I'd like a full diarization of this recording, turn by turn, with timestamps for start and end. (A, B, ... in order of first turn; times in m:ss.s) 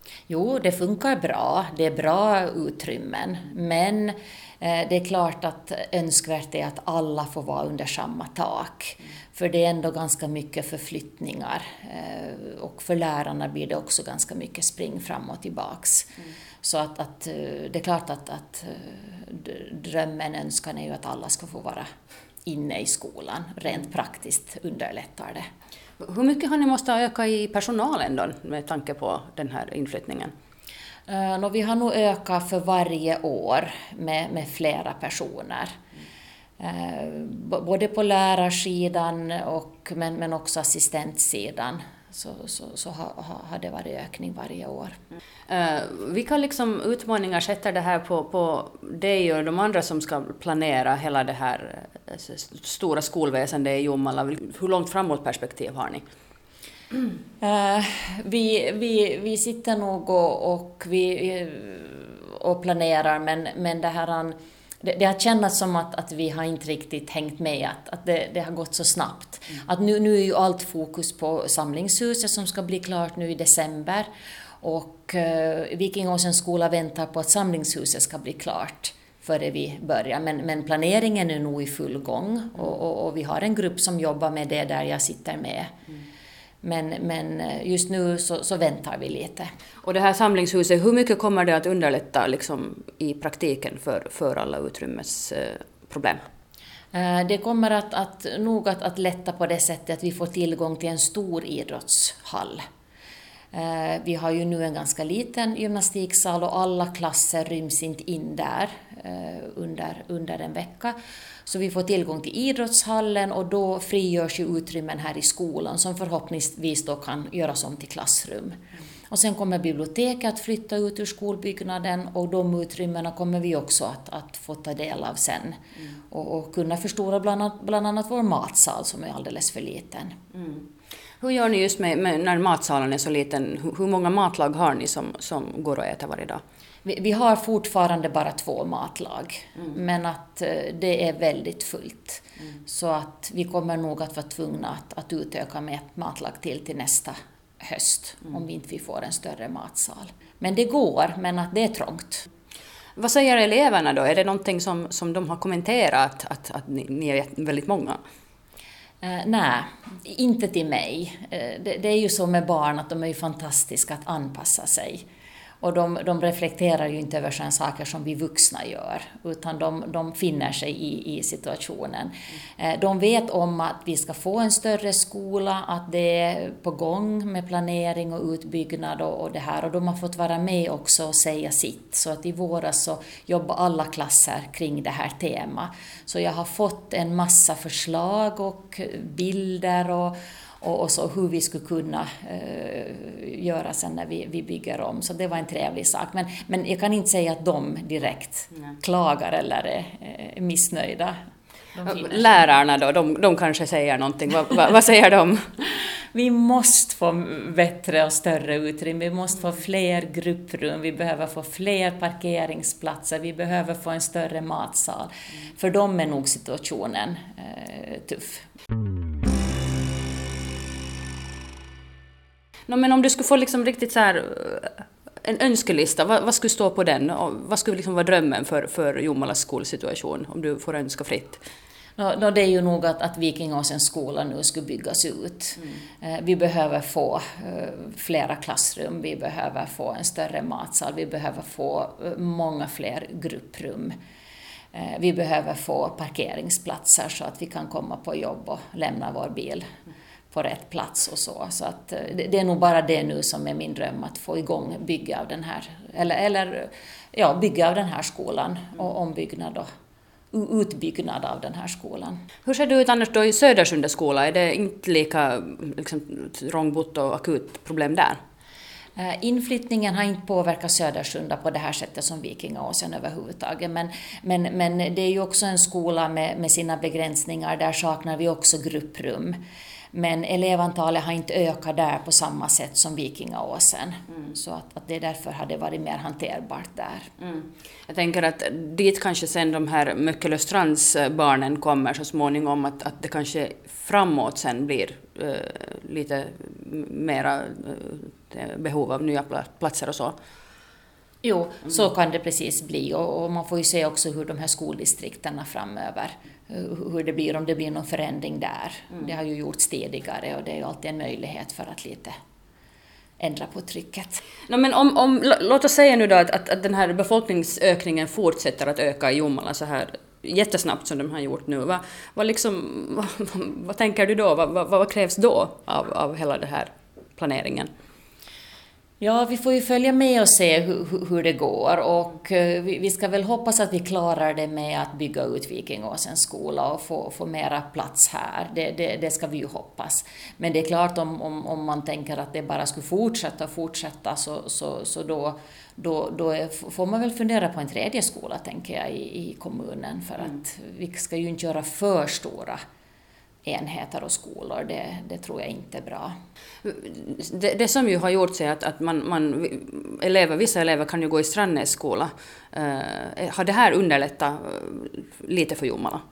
0:00.3-0:16.1 A
0:16.6-0:21.9 A
0:22.5-0:25.4 A
0:26.0-0:30.3 B
0:31.1-0:35.8 A
0:36.6-0:45.0 A
0:45.5-0:56.0 B
0:57.4-1:14.1 A
1:14.6-1:25.7 A
1:26.6-1:29.5 A
1:29.8-1:36.2 B
1:36.9-1:42.6 A
1:43.5-1:51.0 A
1:51.5-2:05.6 A
2:06.1-2:10.2 A
2:10.4-2:10.6 B
2:11.2-2:16.4 B
2:16.8-2:32.3 A
2:33.0-2:38.0 B
2:39.0-2:45.0 A
2:45.6-3:21.2 A
3:21.8-3:22.3 A
3:21.8-3:25.5 B
3:26.1-3:38.4 A
3:42.7-3:51.4 B
3:52.0-4:04.0 A
4:04.7-4:09.6 A
4:10.3-4:19.7 A
4:20.3-4:22.2 A
4:22.4-4:28.2 B
4:29.0-4:39.4 A
4:39.9-4:47.1 A
4:47.2-5:00.2 B
5:01.2-5:12.2 A
5:13.2-5:14.2 A
5:14.5-5:27.7 B
5:29.0-5:52.6 A
5:53.4-5:56.2 A
5:56.6-6:06.0 B